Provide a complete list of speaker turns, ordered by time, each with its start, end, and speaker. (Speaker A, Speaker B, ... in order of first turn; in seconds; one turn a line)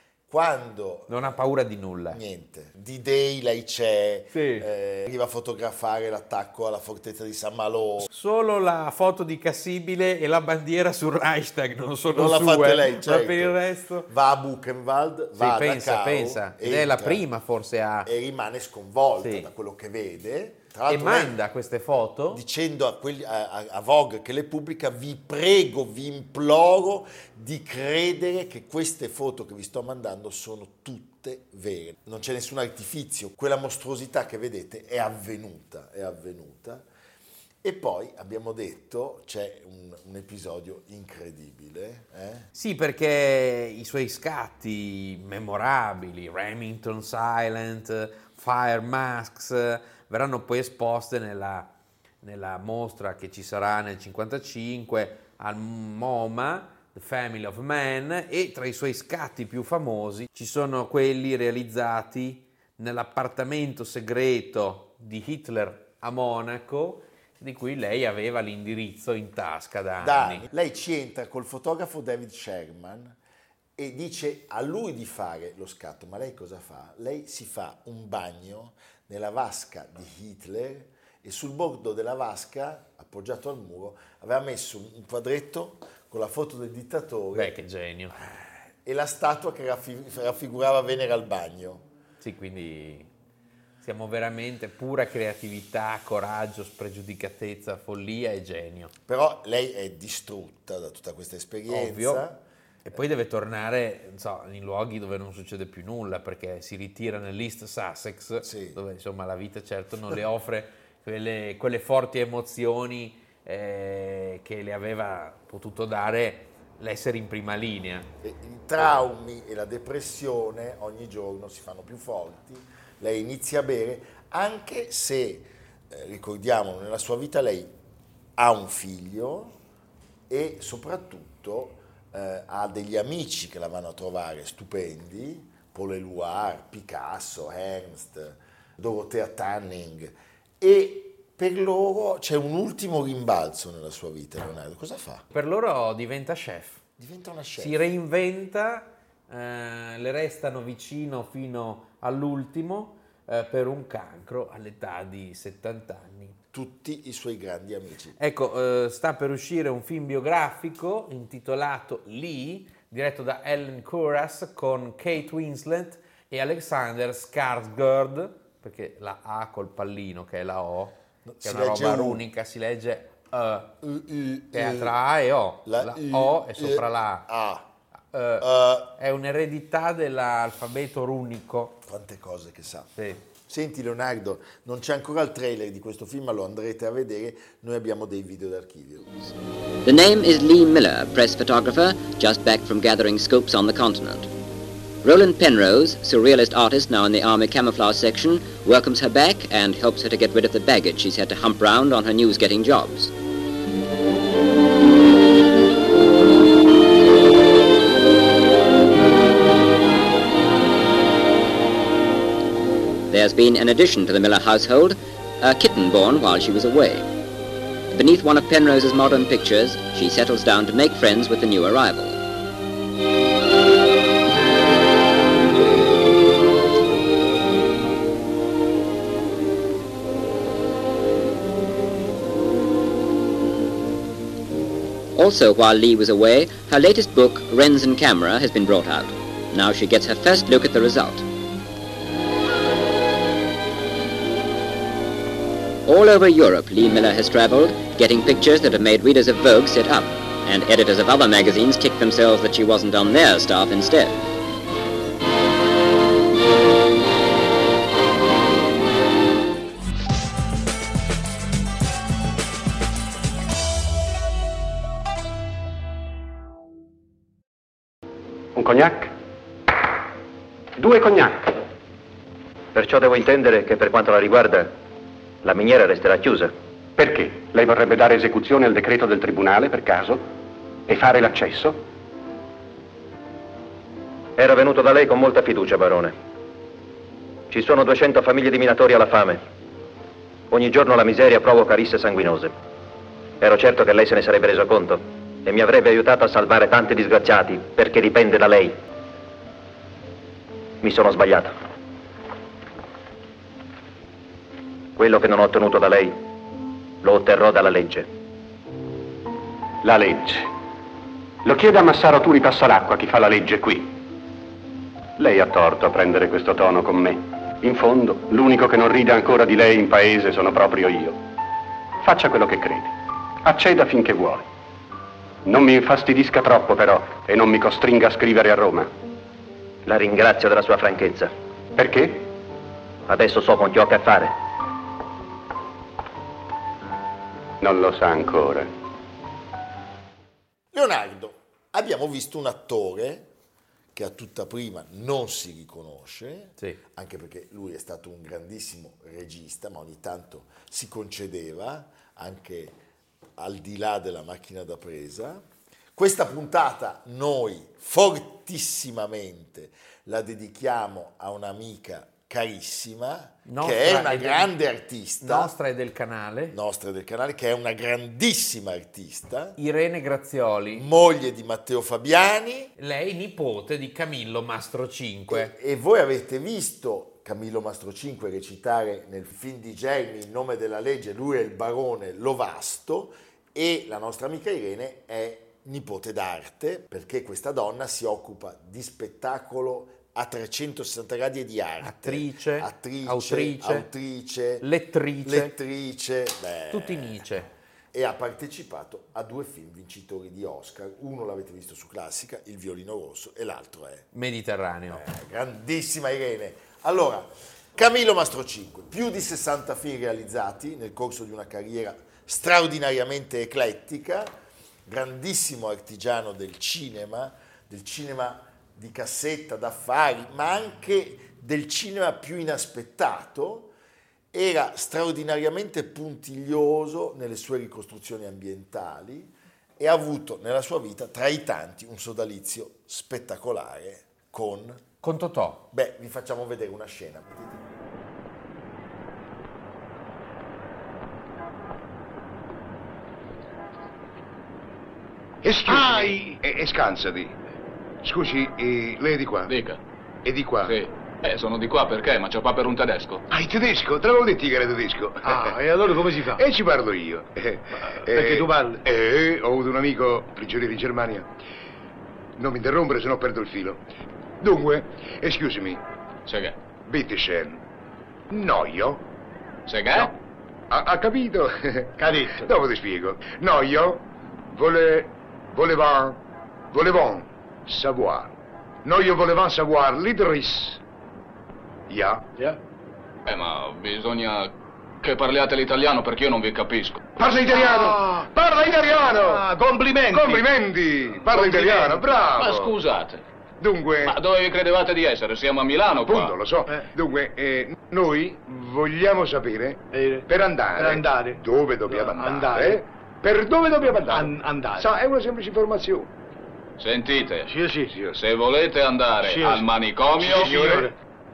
Speaker A: 0.3-1.3
Speaker B: 1.1-2.2
Speaker A: 2.1-8.1
Speaker B: 4.3-4.7
Speaker B: 8.0-14.1
Speaker A: 12.1-17.2
Speaker B: 15.4-18.1
Speaker A: 18.0-21.4
Speaker B: 19.2-19.5
Speaker B: 20.9-22.4
Speaker A: 22.3-36.9
Speaker A: 37.6-42.5
Speaker B: 42.5-51.7
Speaker B: 52.2-70.5
Speaker A: 70.0-73.2
Speaker A: 73.8-87.6
Speaker B: 87.3-88.2
Speaker A: 88.1-91.8
Speaker B: 92.2-93.1
Speaker B: 93.8-98.9
Speaker A: 99.1-103.0
Speaker B: 101.7-102.2
Speaker B: 102.8-118.1
Speaker A: 108.4-108.8
Speaker A: 118.2-127.7
Speaker A: 128.4-129.6
Speaker A: 130.3-145.2
Speaker B: 145.3-146.8
Speaker A: 147.0-147.9
Speaker B: 147.6-156.4
Speaker A: 156.5-158.2
Speaker B: 158.2-173.8
Speaker A: 171.2-172.2
Speaker A: 173.8-174.9
Speaker B: 174.5-177.3
Speaker A: 175.6-177.7
Speaker B: 178.1-181.8
Speaker A: 178.4-178.9
Speaker A: 181.8-182.9
Speaker B: 183.0-183.2
Speaker A: 183.5-189.3
Speaker C: 189.8-194.3
Speaker C: 195.0-203.1
Speaker C: 213.1-217.1
Speaker C: 217.9-222.2
Speaker C: 235.1-241.2
Speaker C: 245.8-254.2
Speaker D: 268.5-269.1
Speaker D: 270.8-271.6
Speaker E: 272.7-274.7
Speaker E: 275.4-276.5
Speaker D: 277.0-280.2
Speaker D: 280.9-281.8
Speaker E: 284.4-286.1
Speaker E: 287.5-289.4
Speaker E: 290.5-292.5
Speaker E: 293.4-298.8
Speaker E: 300.8-301.5
Speaker E: 304.9-306.2
Speaker E: 307.0-308.1
Speaker D: 309.8-310.5
Speaker D: 311.4-313.9
Speaker D: 315.2-321.2
Speaker D: 322.0-324.4
Speaker D: 325.4-328.9
Speaker E: 329.9-331.3
Speaker D: 331.8-332.3
Speaker E: 333.1-334.3
Speaker D: 337.6-338.7
Speaker A: 340.7-343.3
Speaker A: 343.9-352.8
Speaker A: 353.4-355.4
Speaker A: 355.9-365.5
Speaker B: 363.5-364.5
Speaker B: 365.2-366.6
Speaker A: 366.5-369.6
Speaker B: 369.6-370.9
Speaker A: 370.8-372.7
Speaker B: 372.8-375.5
Speaker A: 375.3-394.6
Speaker B: 391.8-393.9
Speaker B: 394.6-395.5
Speaker A: 395.2-404.1
Speaker B: 396.7-397.5
Speaker B: 404.1-405.0
Speaker A: 404.9-414.3
Speaker A: 414.9-423.7
Speaker A: 424.3-434.8
Speaker B: 435.0-435.6
Speaker A: 435.7-437.6
Speaker F: 445.4-447.3
Speaker G: 445.7-446.4
Speaker F: 448.0-449.5
Speaker H: 449.5-449.8
Speaker F: 450.2-450.8
Speaker H: 450.6-453.2
Speaker F: 453.3-455.6
Speaker G: 455.2-456.4
Speaker F: 456.3-461.3
Speaker G: 457.8-458.8
Speaker F: 462.4-463.8
Speaker F: 464.4-465.8
Speaker H: 466.2-466.6
Speaker F: 466.9-467.6
Speaker F: 468.3-469.0
Speaker H: 469.7-470.1
Speaker F: 470.7-476.2
Speaker G: 472.0-472.5
Speaker F: 476.7-478.3
Speaker F: 478.8-480.8
Speaker F: 481.9-482.3
Speaker H: 483.2-487.0
Speaker F: 487.2-489.5
Speaker G: 487.5-488.0
Speaker G: 489.1-490.5
Speaker F: 490.1-492.7
Speaker G: 491.2-492.5
Speaker H: 492.4-493.2
Speaker F: 493.6-494.2
Speaker H: 494.0-496.4
Speaker F: 496.1-506.1
Speaker G: 499.9-502.8
Speaker G: 503.8-504.9
Speaker H: 506.8-507.5
Speaker G: 507.5-508.1
Speaker H: 508.1-510.6
Speaker G: 509.2-509.6
Speaker F: 510.2-510.9
Speaker G: 510.3-510.9